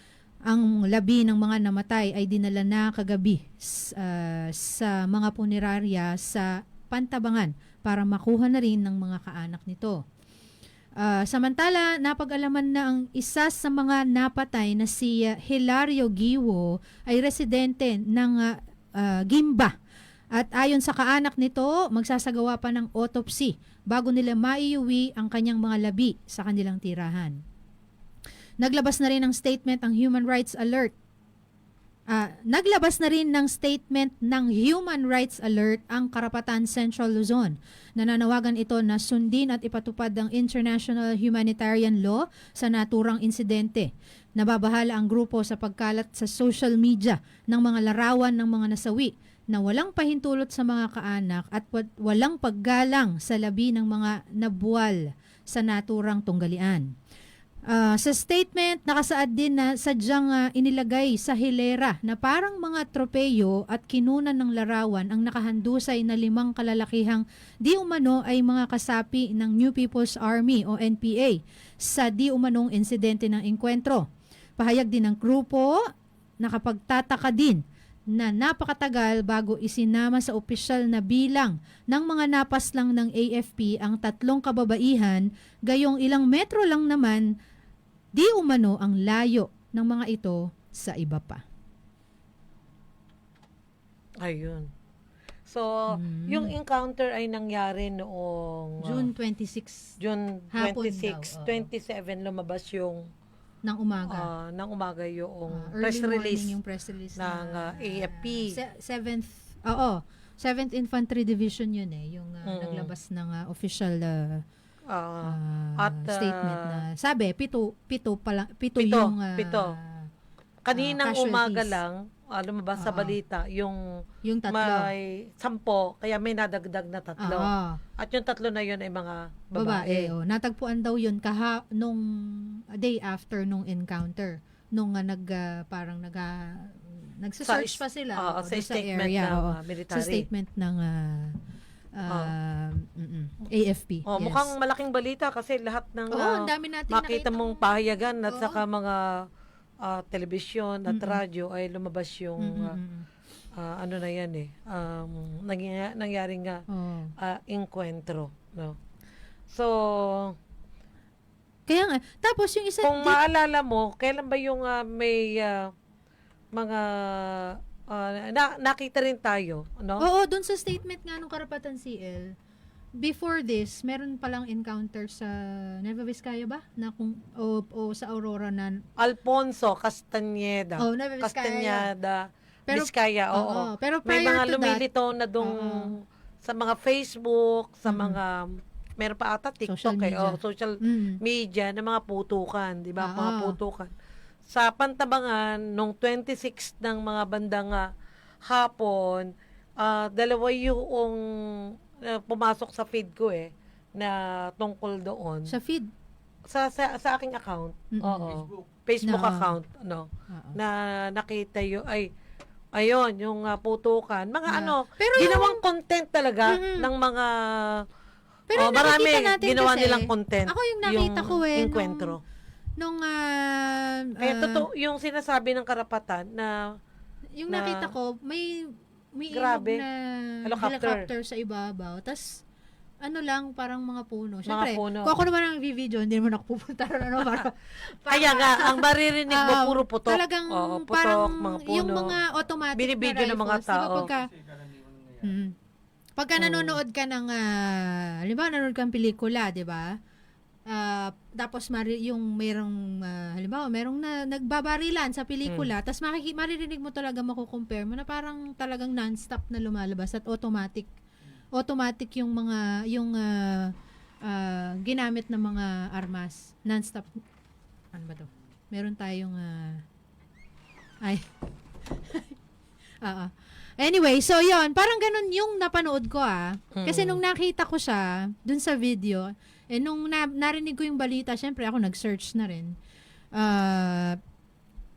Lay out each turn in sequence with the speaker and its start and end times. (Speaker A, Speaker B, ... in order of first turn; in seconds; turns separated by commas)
Speaker A: 0.5-10.0, Speaker A: 11.0-19.7, Speaker A: 20.4-27.4, Speaker A: 28.6-30.9, Speaker A: 32.1-56.9, Speaker A: 57.7-74.1, Speaker A: 74.6-75.8, Speaker A: 76.4-87.3, Speaker A: 88.2-91.4, Speaker B: 94.2-94.7, Speaker A: 95.9-96.5, Speaker B: 96.2-99.1, Speaker A: 98.8-100.0, Speaker B: 100.0-103.0, Speaker A: 100.5-101.7, Speaker A: 103.7-104.3, Speaker B: 104.1-106.6, Speaker A: 105.5-114.4, Speaker B: 107.2-108.6, Speaker B: 112.5-112.9, Speaker B: 114.9-116.8, Speaker A: 115.2-120.1, Speaker B: 118.8-119.8, Speaker B: 120.7-123.8, Speaker A: 120.7-121.8, Speaker A: 122.8-123.1, Speaker A: 124.2-124.9, Speaker B: 124.5-130.1, Speaker A: 127.2-127.8, Speaker A: 129.6-141.4, Speaker B: 137.4-140.3, Speaker A: 141.9-144.5, Speaker B: 142.1-142.3, Speaker B: 144.1-149.3, Speaker A: 146.1-147.7, Speaker A: 148.3-148.6, Speaker B: 149.8-152.8, Speaker A: 150.9-151.2, Speaker A: 152.4-153.1, Speaker B: 153.6-156.6, Speaker A: 156.7-157.1, Speaker B: 157.2-158.8, Speaker B: 159.5-160.3, Speaker A: 161.7-163.2, Speaker B: 162.8-165.7, Speaker B: 166.5-170.1, Speaker A: 170.0-172.3, Speaker A: 173.0-178.8, Speaker B: 179.0-193.9, Speaker A: 180.8-181.9, Speaker A: 182.7-184.8, Speaker A: 185.4-185.9, Speaker A: 187.9-188.2, Speaker A: 189.7-191.2, Speaker A: 193.0-193.6, Speaker B: 194.5-197.8, Speaker B: 198.5-199.3, Speaker B: 199.8-205.5, Speaker A: 205.5-205.9, Speaker B: 206.5-212.1, Speaker A: 207.9-208.4, Speaker A: 209.1-209.6, Speaker A: 210.3-210.6, Speaker B: 212.8-217.8, Speaker A: 214.5-215.6, Speaker A: 216.5-216.9, Speaker A: 218.5-222.2, Speaker B: 218.6-222.2, Speaker A: 222.8-224.7, Speaker B: 224.2-226.5, Speaker A: 227.4-232.4, Speaker B: 227.5-227.9, Speaker B: 229.3-229.8, Speaker B: 230.5-231.1, Speaker A: 233.0-244.4, Speaker B: 234.5-235.1, Speaker B: 238.1-242.2, Speaker B: 242.8-244.1, Speaker A: 245.2-245.5, Speaker A: 246.2-250.0, Speaker B: 246.4-246.8, Speaker A: 250.7-260.9, Speaker B: 255.5-255.7, Speaker A: 261.6-267.2, Speaker A: 267.9-269.8, Speaker A: 271.9-272.4, Speaker A: 273.0-282.8, Speaker B: 276.8-277.2, Speaker A: 283.4-284.2